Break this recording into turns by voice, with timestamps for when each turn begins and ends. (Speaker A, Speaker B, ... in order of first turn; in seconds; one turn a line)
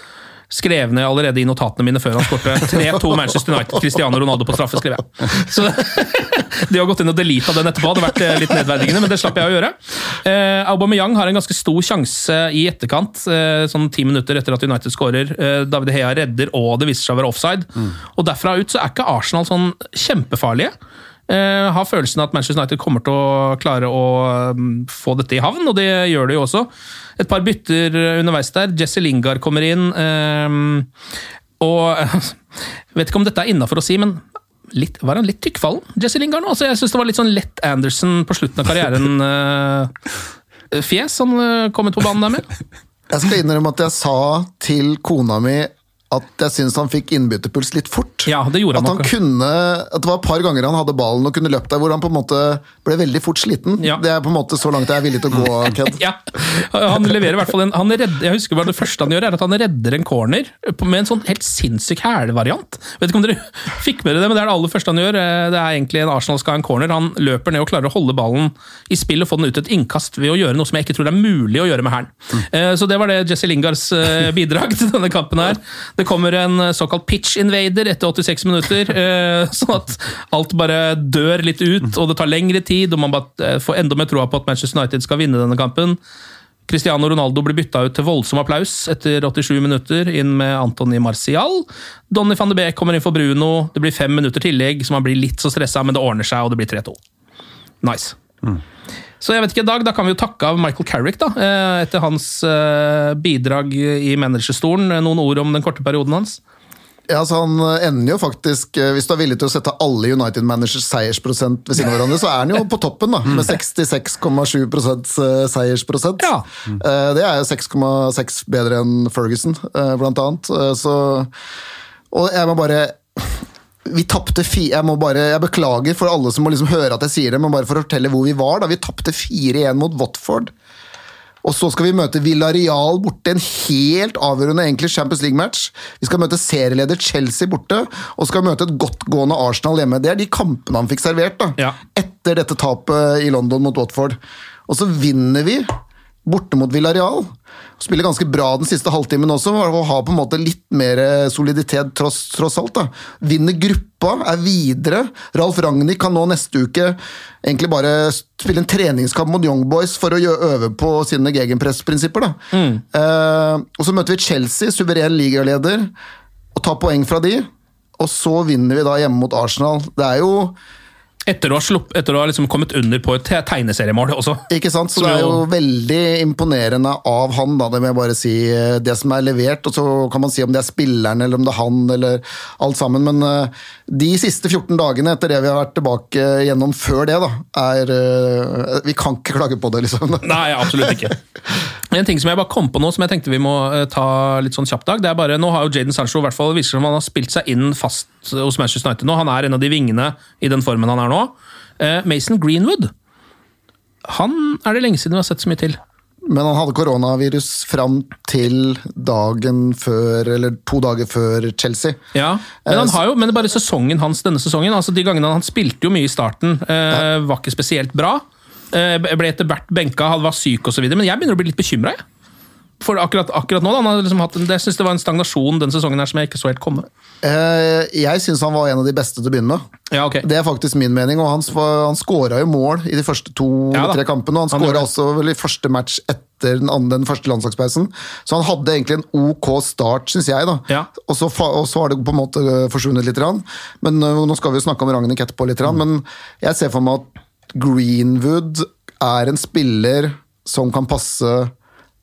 Speaker A: 0.5-20.7
Speaker A: 21.3-26.7
Speaker A: 27.2-30.9
Speaker A: 31.6-32.4
Speaker A: 33.0-39.9
Speaker A: 40.7-42.5
Speaker B: 43.1-56.0
Speaker A: 48.3-49.1
Speaker A: 55.9-86.0
Speaker A: 86.7-97.0
Speaker A: 97.8-98.2
Speaker A: 99.2-106.4
Speaker B: 107.1-121.3
Speaker A: 116.2-116.5
Speaker B: 122.1-130.5
Speaker B: 131.4-145.7
Speaker B: 146.2-162.4
Speaker A: 162.5-162.8
Speaker B: 162.9-165.9
Speaker B: 166.6-170.6
Speaker A: 171.3-175.4
Speaker B: 174.5-191.1
Speaker A: 190.2-191.1
Speaker A: 191.9-202.9
Speaker A: 204.1-205.8
Speaker B: 206.2-212.0
Speaker A: 212.1-222.0
Speaker B: 212.6-213.0
Speaker A: 222.8-226.9
Speaker B: 227.2-229.6
Speaker A: 229.9-230.3
Speaker B: 230.2-251.5
Speaker A: 233.7-234.0
Speaker A: 234.5-234.9